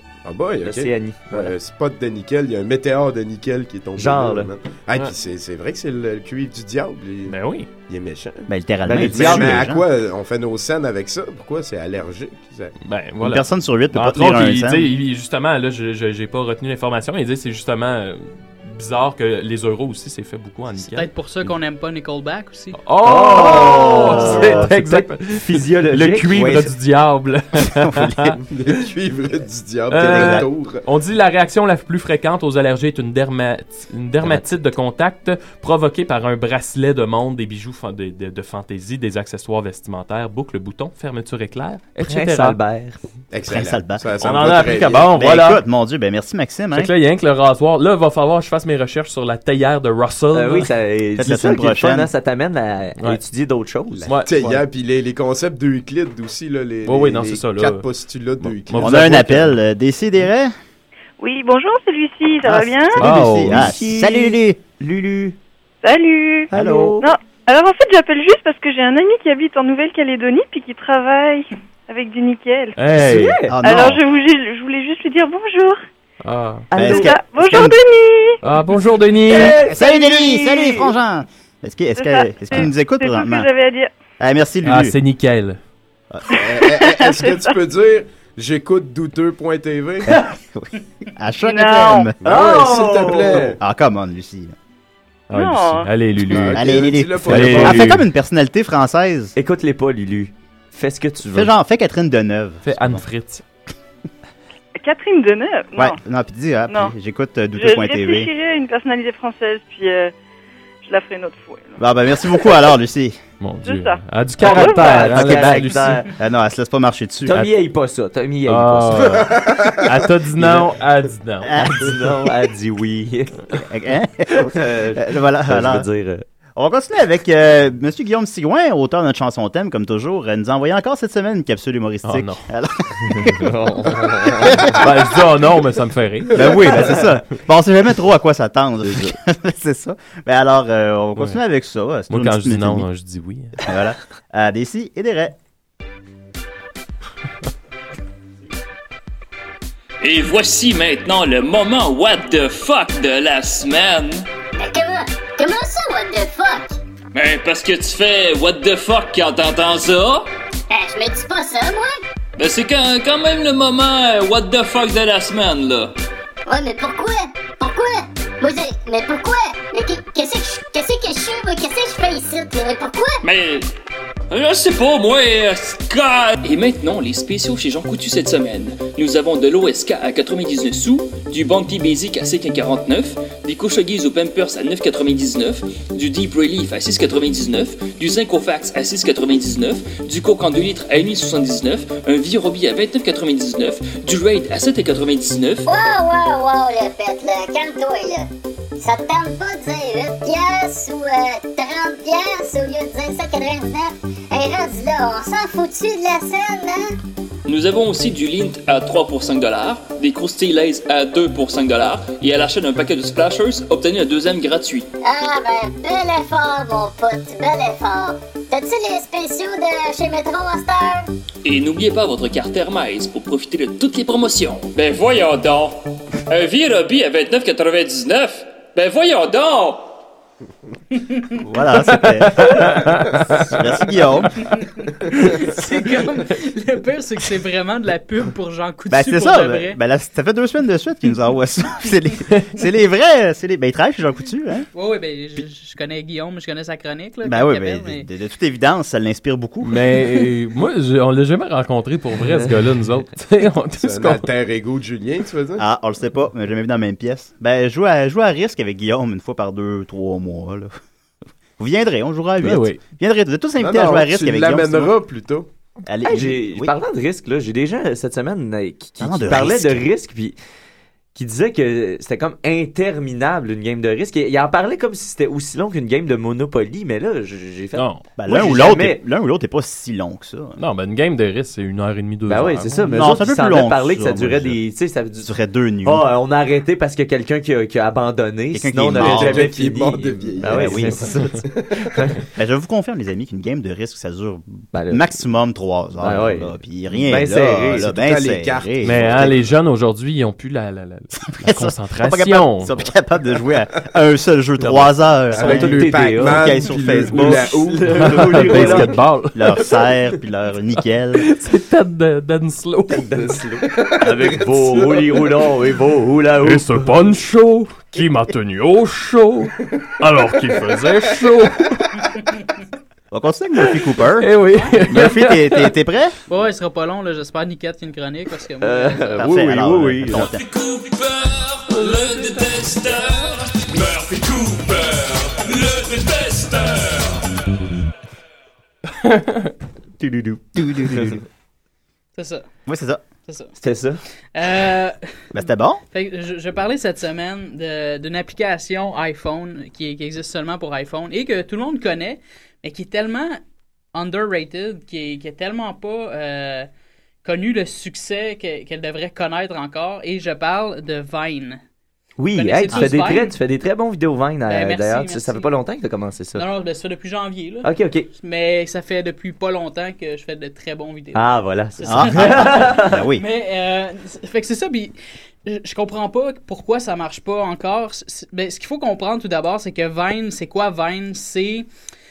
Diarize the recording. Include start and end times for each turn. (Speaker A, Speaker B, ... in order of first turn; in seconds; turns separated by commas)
Speaker A: 0.2-7.4, Speaker B: 0.6-1.5, Speaker B: 4.0-4.5, Speaker C: 7.3-7.7, Speaker A: 7.9-12.7, Speaker D: 8.5-9.8, Speaker B: 8.9-9.7, Speaker C: 12.9-21.5, Speaker D: 13.2-14.9, Speaker E: 20.8-22.8, Speaker C: 22.8-28.4, Speaker B: 23.0-26.7, Speaker D: 23.4-24.7, Speaker D: 26.3-26.7, Speaker D: 27.7-28.3, Speaker A: 28.5-30.8, Speaker C: 29.9-42.6, Speaker D: 30.0-30.5, Speaker B: 34.2-34.5, Speaker B: 42.0-43.0, Speaker A: 43.3-45.1, Speaker D: 43.5-44.1, Speaker C: 44.2-45.6, Speaker D: 45.1-46.9, Speaker C: 46.7-50.7, Speaker B: 50.3-54.1, Speaker D: 51.2-52.1, Speaker A: 53.9-59.2, Speaker C: 54.1-54.6, Speaker C: 56.9-57.8, Speaker C: 58.4-59.6, Speaker D: 58.8-60.5, Speaker F: 61.2-63.1, Speaker D: 62.4-64.6, Speaker C: 63.0-63.7, Speaker B: 63.4-65.4, Speaker F: 65.8-66.5, Speaker B: 66.5-67.0, Speaker D: 66.5-67.0, Speaker F: 67.0-72.8, Speaker C: 72.8-73.4, Speaker B: 73.0-73.6, Speaker D: 73.5-74.0, Speaker F: 73.6-75.8, Speaker C: 76.2-76.7, Speaker B: 76.7-77.6, Speaker D: 76.8-77.8, Speaker F: 76.9-78.4, Speaker C: 78.4-79.6, Speaker B: 79.3-79.9, Speaker D: 79.7-83.5, Speaker F: 79.7-80.7, Speaker B: 80.4-80.8, Speaker F: 82.0-83.9, Speaker D: 84.2-85.0, Speaker C: 84.6-85.6, Speaker F: 86.3-87.5, Speaker A: 86.3-90.2, Speaker D: 90.2-92.1, Speaker F: 91.4-92.1, Speaker A: 92.2-93.6, Speaker B: 92.2-93.6, Speaker D: 93.6-94.5, Speaker F: 95.3-95.9, Speaker C: 95.3-98.0, Speaker A: 96.3-97.8, Speaker D: 96.5-99.3, Speaker B: 99.4-101.5, Speaker D: 101.3-103.0, Speaker C: 102.7-103.4, Speaker F: 104.8-106.0, Speaker D: 105.8-108.3, Speaker F: 106.7-107.0, Speaker F: 107.5-110.1, Speaker F: 110.8-111.8, Speaker D: 111.8-113.2, Speaker C: 113.4-116.1, Speaker F: 113.6-115.7, Speaker B: 114.4-116.1, Speaker D: 116.2-117.4, Speaker B: 117.3-119.3, Speaker C: 118.5-121.5, Speaker A: 119.1-120.0, Speaker B: 120.4-120.7, Speaker D: 121.4-122.0, Speaker B: 121.5-123.5, Speaker D: 123.6-125.9, Speaker B: 124.4-126.2, Speaker D: 126.6-133.4, Speaker C: 132.1-132.5, Speaker C: 133.1-133.4, Speaker B: 133.4-134.7, Speaker D: 134.4-134.8, Speaker C: 134.6-137.1, Speaker D: 136.3-142.9, Speaker B: 138.9-139.1, Speaker C: 142.1-143.7, Speaker D: 143.6-145.3, Speaker G: 150.0-154.3, Speaker H: 154.6-156.8, Speaker G: 157.1-160.3, Speaker H: 160.7-162.0, Speaker G: 162.4-165.9, Speaker H: 166.5-173.2, Speaker G: 173.2-173.7, Speaker G: 174.3-195.7, Speaker H: 195.7-198.3, Speaker H: 198.8-206.9, Speaker G: 207.5-214.9, Speaker H: 215.0-221.1, Speaker G: 221.4-229.9, Speaker E: 231.0-231.4, Speaker D: 231.4-232.9, Speaker C: 232.1-233.6, Speaker D: 233.4-234.4, Speaker E: 234.4-239.8, Speaker D: 238.9-244.7, Speaker E: 244.7-248.1, Speaker D: 247.2-249.8, Speaker C: 249.6-254.3, Speaker A: 253.8-255.6, Speaker D: 255.6-260.7, Speaker D: 261.6-264.9, Speaker C: 262.4-262.8, Speaker A: 263.6-265.5, Speaker D: 265.9-266.7, Speaker B: 266.1-270.4, Speaker D: 269.0-269.9, Speaker B: 271.1-279.0, Speaker C: 277.8-278.0, Speaker D: 278.2-280.6, Speaker C: 280.6-282.8, Speaker B: 282.3-285.3, Speaker D: 282.9-284.6, Speaker D: 285.2-286.1, Speaker B: 285.8-292.2, Speaker D: 288.5-289.5, Speaker A: 288.9-292.0, Speaker D: 290.5-291.0, Speaker D: 292.4-299.4, Speaker B: 294.7-295.1, Speaker B: 296.0-296.5, Speaker B: 297.1-297.9, Speaker A: 297.6-299.4, Speaker C: 298.8-302.7, Speaker D: 301.4-307.5, Speaker B: 304.7-309.0, Speaker A: 305.3-308.9, Speaker C: 308.0-309.6, Speaker D: 308.6-311.3, Speaker C: 311.2-313.2, Speaker B: 312.9-317.1, Speaker A: 313.7-315.5, Speaker C: 316.4-322.0, Speaker E: 322.2-322.4, Speaker D: 323.1-324.3, Speaker C: 324.0-325.7, Speaker E: 324.5-324.8, Speaker D: 324.9-326.2, Speaker E: 326.3-329.2, Speaker B: 328.6-330.3, Speaker D: 329.2-330.4, Speaker G: 330.3-337.2, Speaker C: 339.0-339.5, Speaker B: 340.0-341.2, Speaker D: 340.6-341.2, Speaker E: 342.1-342.4, Speaker D: 342.7-343.0, Speaker E: 343.3-343.6, Speaker B: 343.6-344.0, Speaker E: 344.4-345.0, Speaker D: 345.3-345.8, Speaker E: 345.9-353.4, Speaker E: 353.9-356.7, Speaker E: 357.2-361.6, Speaker B: 362.2-366.5, Speaker E: 362.4-363.4, Speaker E: 364.4-365.5, Speaker E: 366.4-374.9, Speaker B: 367.6-368.1, Speaker B: 371.1-373.1, Speaker D: 371.9-373.2, Speaker E: 375.5-381.7